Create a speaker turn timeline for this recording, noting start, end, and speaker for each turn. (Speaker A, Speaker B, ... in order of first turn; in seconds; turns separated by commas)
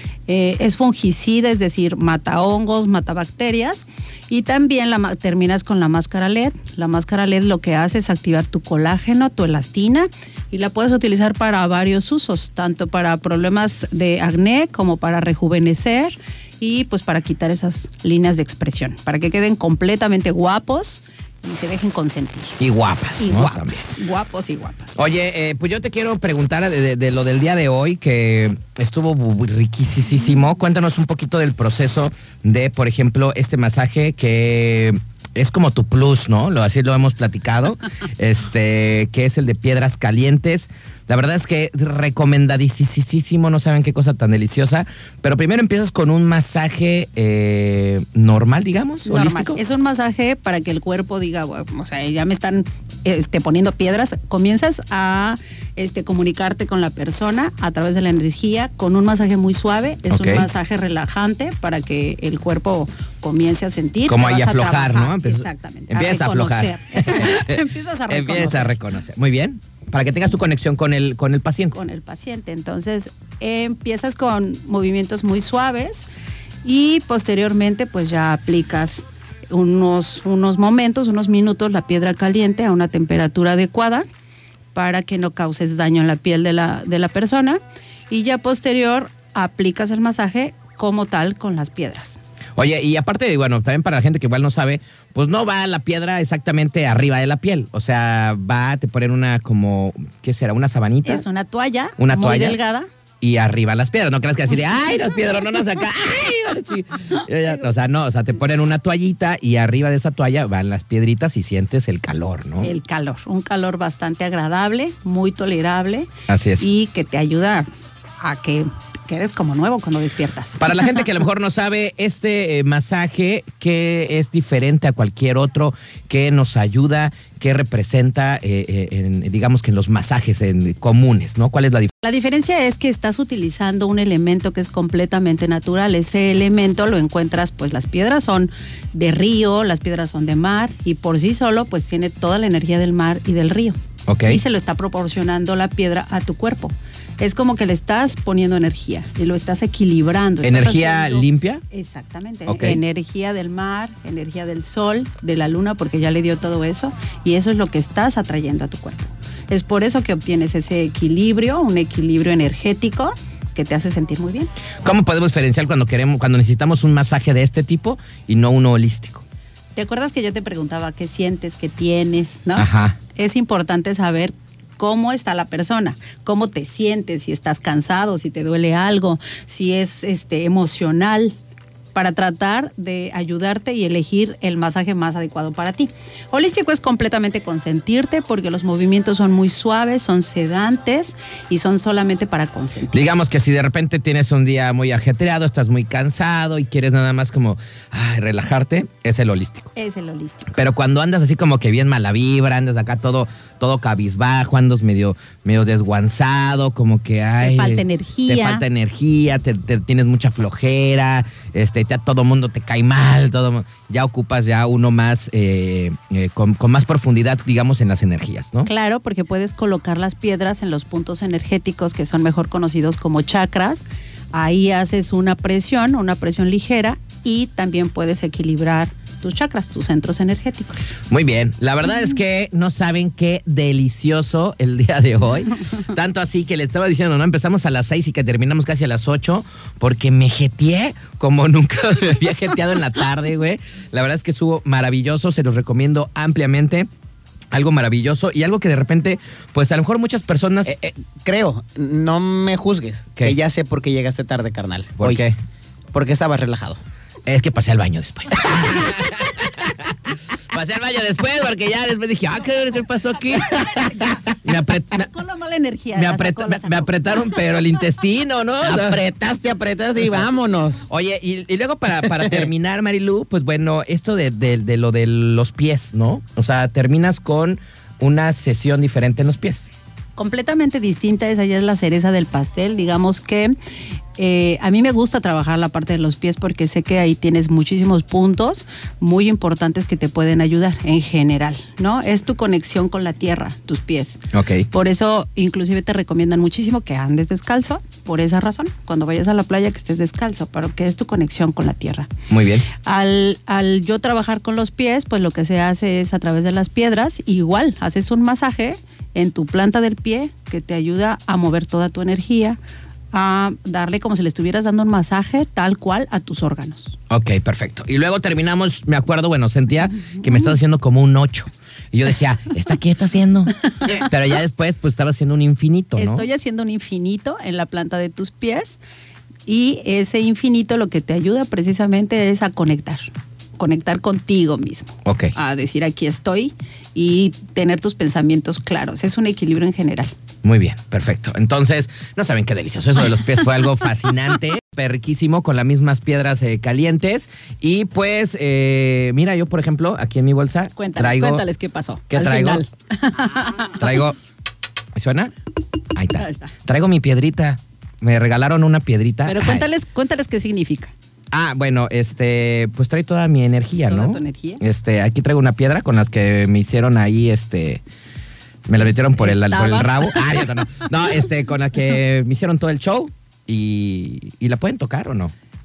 Speaker A: 0.3-22.6, Speaker B: 22.6-23.9, Speaker A: 23.2-24.9, Speaker B: 24.9-49.6, Speaker A: 49.0-68.8, Speaker B: 60.1-60.5, Speaker B: 64.1-71.8, Speaker A: 71.7-76.0, Speaker A: 76.6-84.0, Speaker A: 84.7-92.2, Speaker B: 92.6-101.2, Speaker A: 101.0-102.9, Speaker B: 102.0-102.6, Speaker B: 103.2-112.7, Speaker A: 112.6-117.7, Speaker B: 116.3-116.7, Speaker A: 118.2-120.7, Speaker B: 120.6-131.9, Speaker A: 132.0-164.5, Speaker B: 144.1-144.4, Speaker B: 150.4-151.6, Speaker B: 152.5-152.8, Speaker B: 164.8-169.2, Speaker A: 169.7-181.3, Speaker B: 172.6-173.0, Speaker A: 181.9-193.0, Speaker B: 192.9-199.7, Speaker A: 199.8-200.5, Speaker B: 200.5-218.7, Speaker A: 207.4-208.6, Speaker A: 218.7-230.8, Speaker B: 231.1-246.9, Speaker B: 247.5-250.8, Speaker C: 250.6-255.2, Speaker B: 255.0-255.4, Speaker C: 255.9-256.8, Speaker B: 257.3-259.7, Speaker B: 260.5-265.1, Speaker A: 263.4-264.2, Speaker A: 264.9-267.4, Speaker B: 265.9-269.0, Speaker C: 268.6-270.8, Speaker B: 270.9-279.7, Speaker C: 272.1-272.5, Speaker A: 280.2-283.6, Speaker A: 284.2-294.2, Speaker B: 294.3-294.7, Speaker A: 294.7-302.1, Speaker B: 302.3-302.6, Speaker A: 302.7-312.6, Speaker A: 313.1-317.0, Speaker B: 317.1-326.3, Speaker A: 320.2-320.5, Speaker A: 325.9-328.8, Speaker A: 329.4-340.1, Speaker B: 335.1-335.3, Speaker B: 340.4-351.4, Speaker A: 350.8-354.0, Speaker B: 352.1-352.6, Speaker B: 353.8-354.2, Speaker B: 354.9-355.3, Speaker B: 355.9-359.7, Speaker A: 356.1-356.5, Speaker A: 359.3-360.9, Speaker B: 361.3-367.8, Speaker A: 363.9-364.6, Speaker B: 368.7-375.3, Speaker A: 369.2-370.4